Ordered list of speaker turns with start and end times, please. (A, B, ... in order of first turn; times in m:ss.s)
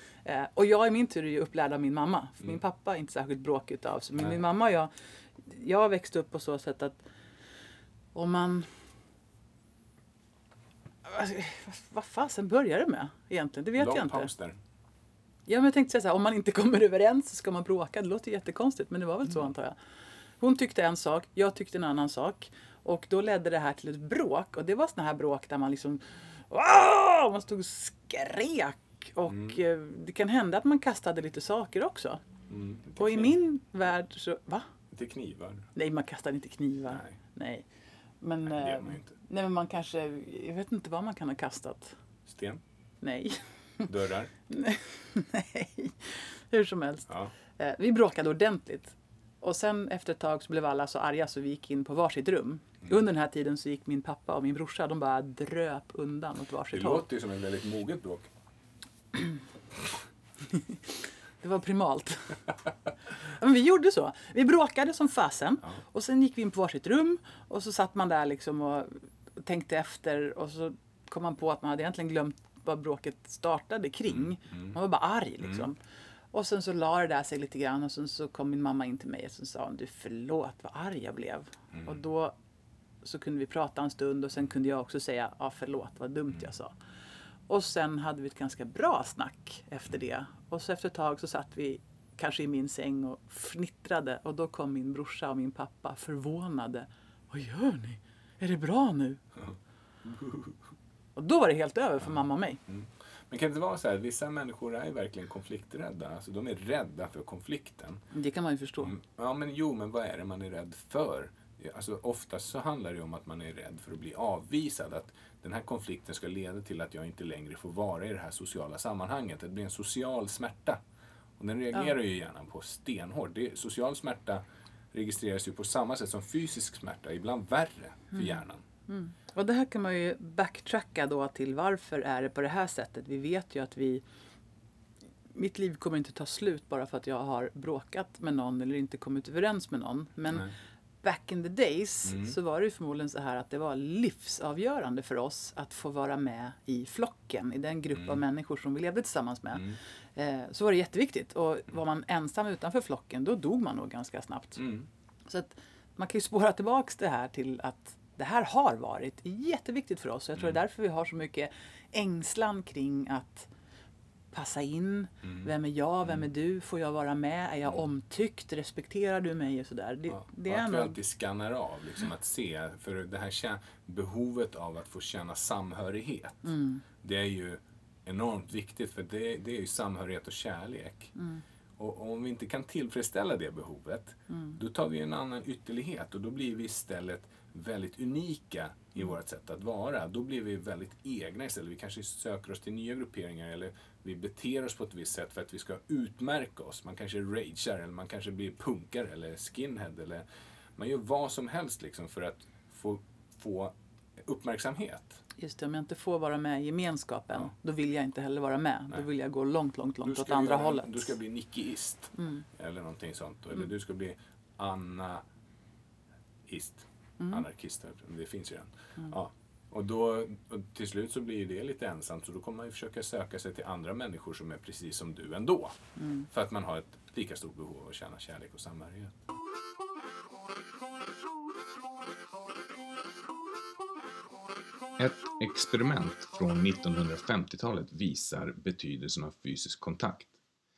0:00.2-0:07.0 A
0:08.1-0:08.7 A
0:11.0-0:14.3 A
0:13.8-0:14.6 B
0:15.5-0:19.8 A
0:20.4-0:32.2 A
0:29.3-0:29.6 B
0:32.5-0:33.4 B
0:33.0-0:34.7 A
0:34.9-0:35.7 B
0:35.7-0:37.6 A
0:38.2-0:42.0 A
0:38.4-0:39.1 B
0:42.2-0:42.6 B
0:43.0-0:43.9 A
0:43.9-0:44.3 B
0:44.5-0:57.0 A
0:56.7-0:58.3 B
1:00.5-1:02.4 A
1:03.2-1:15.8 A
1:14.1-1:14.8 B
1:16.3-1:22.3 A
1:23.0-1:26.7 A
1:27.5-1:39.2 A
1:39.4-1:40.6 B
1:41.2-1:42.6 A
1:42.7-1:48.0 B
1:48.1-1:48.9 A
1:48.8-2:00.8 B
2:01.4-2:08.6 B
2:08.1-2:14.0 A
2:15.3-2:20.5 A
2:21.0-2:34.6 A
2:22.1-2:22.4 B
2:34.6-2:34.9 B
2:35.3-2:43.5 A
2:44.3-2:51.0 A
2:45.2-2:45.5 B
2:50.1-2:56.5 B
2:56.4-2:56.8 A
2:57.0-3:01.1 B
3:01.2-3:01.4 A
3:01.8-3:20.2 B
3:04.3-3:04.6 A
3:20.8-3:25.2 B
3:25.4-3:31.1 A
3:30.0-3:35.2 B
3:32.2-3:32.4 A
3:36.5-3:45.8 B
3:46.0-3:46.3 A
3:46.3-3:49.2 B
3:55.0-4:00.3 C